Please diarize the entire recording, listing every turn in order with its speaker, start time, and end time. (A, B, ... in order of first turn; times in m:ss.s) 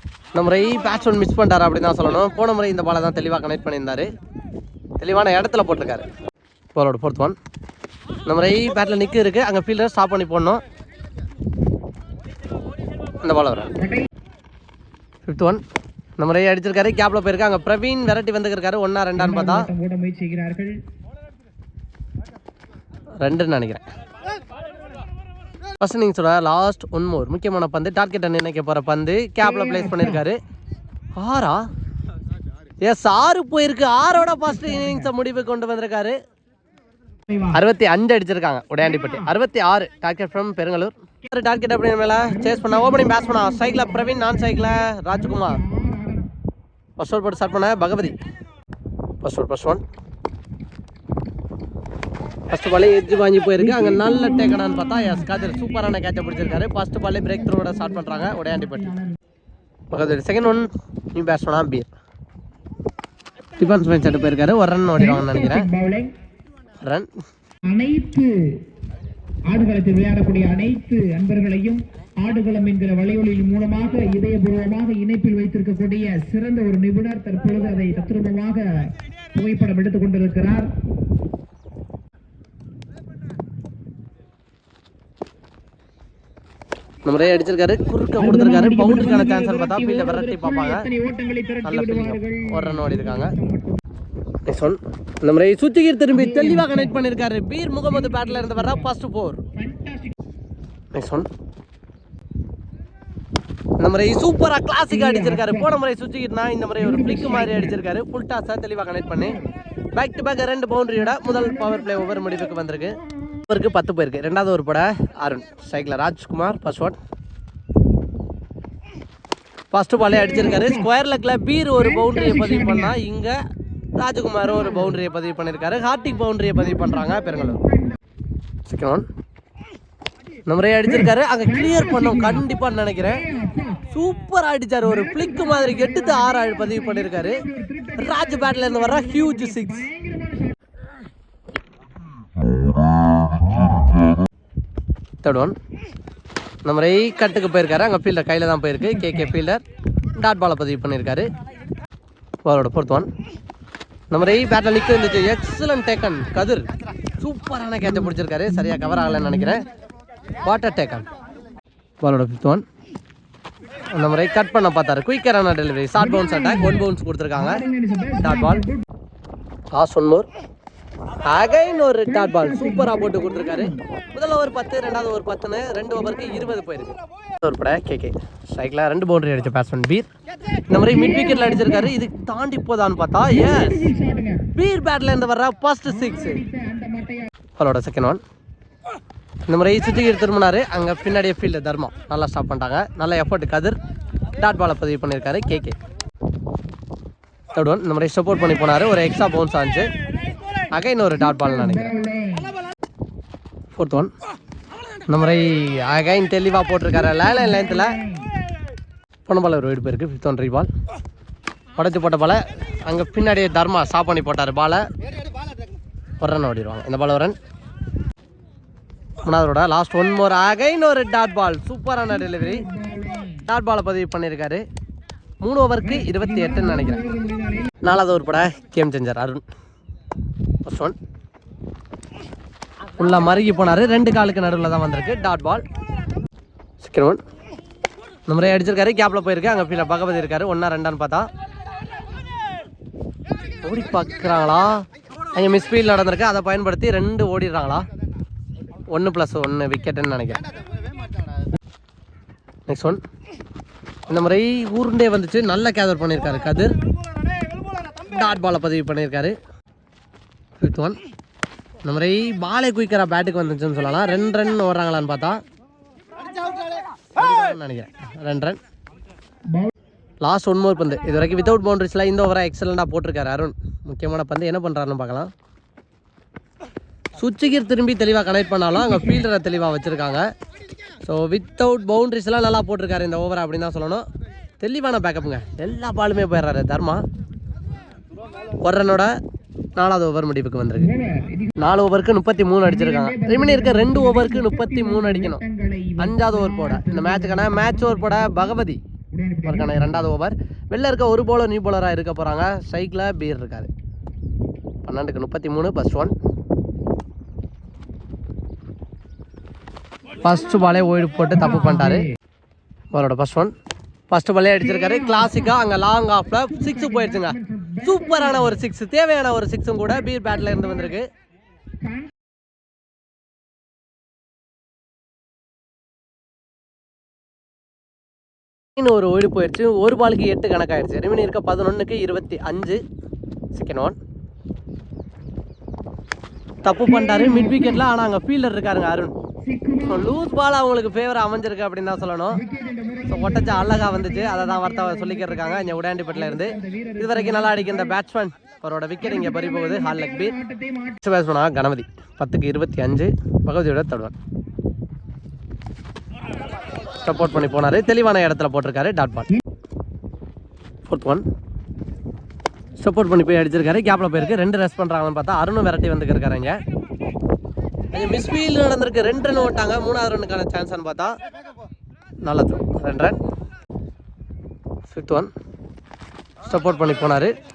0:00.3-0:04.1 A
0:05.0-0:06.0 A
0:06.7-0:07.4 A
0:08.2-0:10.6 A
0:13.2-0:13.7 A
0:13.8-0:14.1 B
0:15.2-0:15.6 A
0:16.2-0:19.7 A
0:19.2-0:20.8 B
0:23.2-0:23.8 A
0:25.8-0:30.4 A
0:29.4-0:30.2 B
0:31.2-0:31.6 A
0:32.8-0:36.2 A
0:34.3-0:35.1 B
0:37.3-0:37.5 B
0:37.5-0:45.6 A
0:38.8-0:39.3 B
0:42.2-0:46.3 B
0:47.0-0:48.1 A
0:49.2-0:49.8 A
0:52.5-0:58.9 A
0:53.6-0:59.2 B
0:59.9-1:01.9 A
1:03.6-1:05.7 A
1:04.9-1:06.1 B
1:06.8-1:07.1 A
1:07.7-1:08.6 B
1:09.5-1:18.7 B
1:19.3-1:20.7 B
1:27.0-1:30.8 A
1:28.2-1:33.8 B
1:31.6-1:33.3 A
1:34.5-1:39.4 A
1:36.1-1:37.0 B
1:37.9-1:38.9 B
1:39.5-1:40.1 B
1:40.9-1:41.3 A
1:43.8-1:49.4 A
1:44.9-1:45.8 B
1:46.8-1:47.8 B
1:50.0-1:52.9 A
1:50.9-1:52.3 B
1:53.5-1:57.0 A
1:59.7-2:03.4 A
2:00.0-2:00.9 B
2:01.8-2:03.0 B
2:04.0-2:07.6 A
2:04.4-2:05.0 B
2:06.5-2:08.0 B
2:08.7-2:09.0 A
2:10.5-2:13.2 A
2:10.8-2:12.4 B
2:13.0-2:13.8 B
2:13.9-2:17.4 A
2:14.8-2:20.5 B
2:18.0-2:19.8 A
2:25.2-2:25.5 A
2:26.6-2:29.6 A
2:28.8-2:29.4 B
2:30.2-2:31.3 A
2:32.4-2:33.1 A
2:34.1-2:36.7 A
2:37.2-2:39.6 A
2:37.8-2:39.6 B
2:40.4-2:41.0 A
2:42.0-2:42.6 A
2:43.9-2:47.6 A
2:46.0-2:46.8 B
2:47.3-2:48.8 B
2:48.2-2:48.6 A
2:49.7-2:50.2 A
2:51.2-3:00.0 A
2:52.0-2:53.8 B
3:00.7-3:03.8 A
3:00.9-3:01.9 B
3:03.3-3:04.5 B
3:04.6-3:06.4 A
3:05.8-3:07.3 B
3:07.5-3:08.2 A
3:09.5-3:13.8 A
3:14.4-3:15.7 A
3:17.5-3:19.9 A
3:20.7-3:21.9 A
3:21.2-3:22.5 B
3:23.7-3:24.1 A
3:25.1-3:28.0 A
3:26.9-3:28.3 B
3:29.2-3:30.7 A
3:31.8-3:34.8 A
3:36.2-3:37.3 A
3:39.2-3:42.6 A
3:42.1-3:43.5 B
3:43.4-3:44.6 A
3:45.4-3:47.0 A
3:45.8-3:47.8 B
3:47.8-3:49.4 A
3:50.6-3:50.9 A
3:53.0-3:55.6 A
3:56.8-3:57.2 A
3:58.3-4:01.2 A
4:03.6-4:04.8 A
4:05.3-4:07.8 A
4:08.9-4:10.4 A
4:12.7-4:13.0 A
4:14.1-4:16.7 A
4:18.1-4:19.3 A
4:20.6-4:21.0 A
4:21.8-4:25.4 A
4:27.2-4:28.6 A
4:30.2-4:35.3 A
4:37.2-4:40.2 A
4:38.7-4:39.2 B
4:41.0-4:44.0 A
4:44.6-4:47.0 A
4:48.6-4:49.1 A
4:49.8-4:50.9 A
4:50.8-4:51.6 B
4:51.6-4:55.4 A
4:52.6-4:58.6 B
4:56.0-4:58.8 A
4:59.1-5:00.1 B
4:59.4-5:03.7 A
5:04.8-5:06.1 A
5:10.2-5:12.1 A
5:11.3-5:12.1 B
5:12.9-5:13.5 A
5:14.1-5:21.0 A
5:14.6-5:15.5 B
5:16.5-5:18.6 B
5:20.1-5:21.0 B
5:21.8-5:22.1 B
5:28.8-5:32.8 A
5:33.5-5:34.0 A
5:36.6-5:39.1 A
5:36.8-5:37.8 B
5:39.4-5:40.2 B
5:39.9-5:42.4 A
5:42.3-5:48.0 B
5:43.1-5:50.3 A
5:49.0-5:51.0 B
5:51.0-5:54.1 A
5:57.0-5:59.3 A
6:00.8-6:01.2 A
6:02.8-6:06.6 A
6:07.9-6:11.1 A
6:12.2-6:13.2 A
6:14.9-6:15.3 A
6:16.4-6:17.3 A